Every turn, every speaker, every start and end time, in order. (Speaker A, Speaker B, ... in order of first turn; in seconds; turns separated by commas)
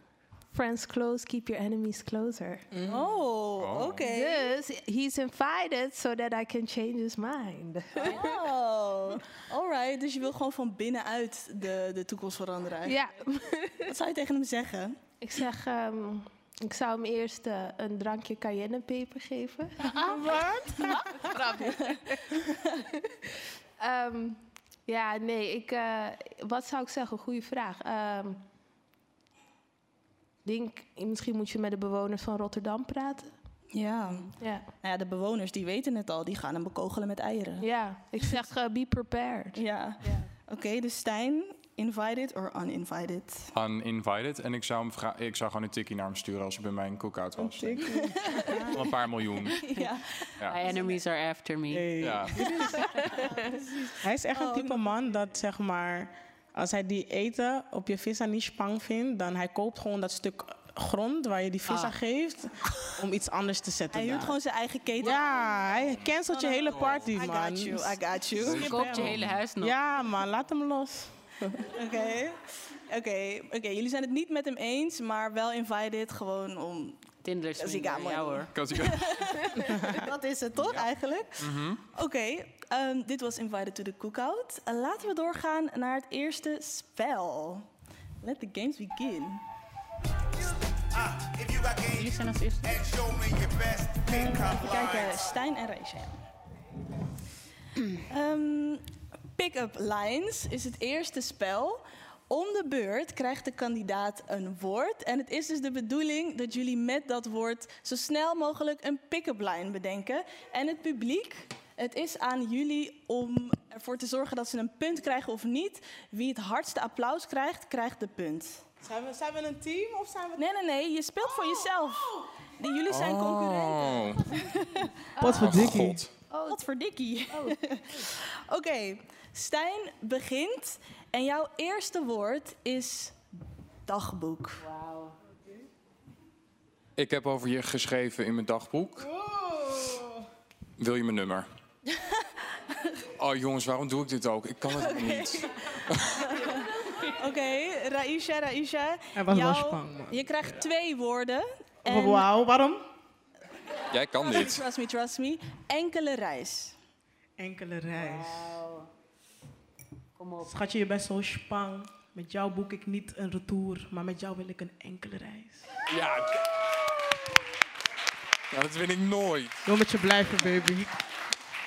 Speaker A: 0.5-2.7, Speaker B: 2.7-3.0, Speaker C: 2.9-4.5, Speaker D: 3.6-4.0, Speaker A: 4.0-8.3, Speaker C: 8.0-13.0, Speaker A: 12.8-13.9, Speaker C: 13.8-15.0, Speaker A: 15.2-22.0, Speaker C: 20.0-20.9, Speaker B: 20.2-20.9, Speaker C: 21.6-22.6, Speaker A: 23.8-28.4, Speaker A: 30.4-33.3, Speaker C: 33.7-37.7, Speaker A: 34.4-34.6, Speaker A: 37.6-39.6, Speaker C: 39.5-43.5, Speaker D: 43.5-48.0, Speaker B: 47.4-48.8, Speaker C: 47.9-48.8, Speaker D: 48.7-49.7, Speaker C: 49.6-51.0, Speaker E: 50.5-52.1, Speaker B: 51.7-53.3, Speaker D: 52.0-52.3, Speaker C: 52.6-55.0, Speaker B: 54.0-64.4, Speaker C: 63.9-65.3, Speaker B: 65.0-71.5, Speaker C: 66.3-69.0, Speaker D: 66.8-67.0, Speaker D: 68.4-69.4, Speaker E: 68.6-69.8, Speaker C: 71.6-77.0, Speaker E: 77.2-78.5, Speaker C: 77.6-87.7, Speaker D: 78.5-79.5, Speaker D: 80.6-80.9, Speaker D: 81.4-81.8, Speaker C: 88.2-89.4, Speaker F: 90.9-95.3, Speaker E: 91.9-92.8, Speaker C: 94.1-96.2, Speaker C: 98.0-118.6, Speaker B: 118.8-120.4, Speaker C: 120.4-124.9, Speaker D: 122.9-124.3, Speaker A: 125.2-125.7, Speaker B: 125.2-126.0, Speaker D: 125.3-126.1, Speaker A: 126.3-126.6, Speaker C: 126.5-133.2, Speaker A: 127.3-127.6, Speaker C: 133.9-134.6, Speaker E: 134.6-135.2, Speaker D: 137.0-139.1, Speaker B: 139.0-140.2, Speaker D: 140.8-141.5, Speaker C: 142.0-142.3, Speaker D: 143.2-146.2, Speaker C: 144.8-152.3, Speaker B: 149.1-150.5, Speaker B: 151.8-152.8, Speaker D: 153.9-154.6, Speaker C: 154.2-156.8, Speaker B: 157.4-158.6, Speaker E: 157.9-158.9, Speaker E: 160.2-160.5, Speaker B: 160.4-165.7, Speaker D: 165.9-167.2, Speaker D: 168.5-169.6, Speaker B: 169.6-170.9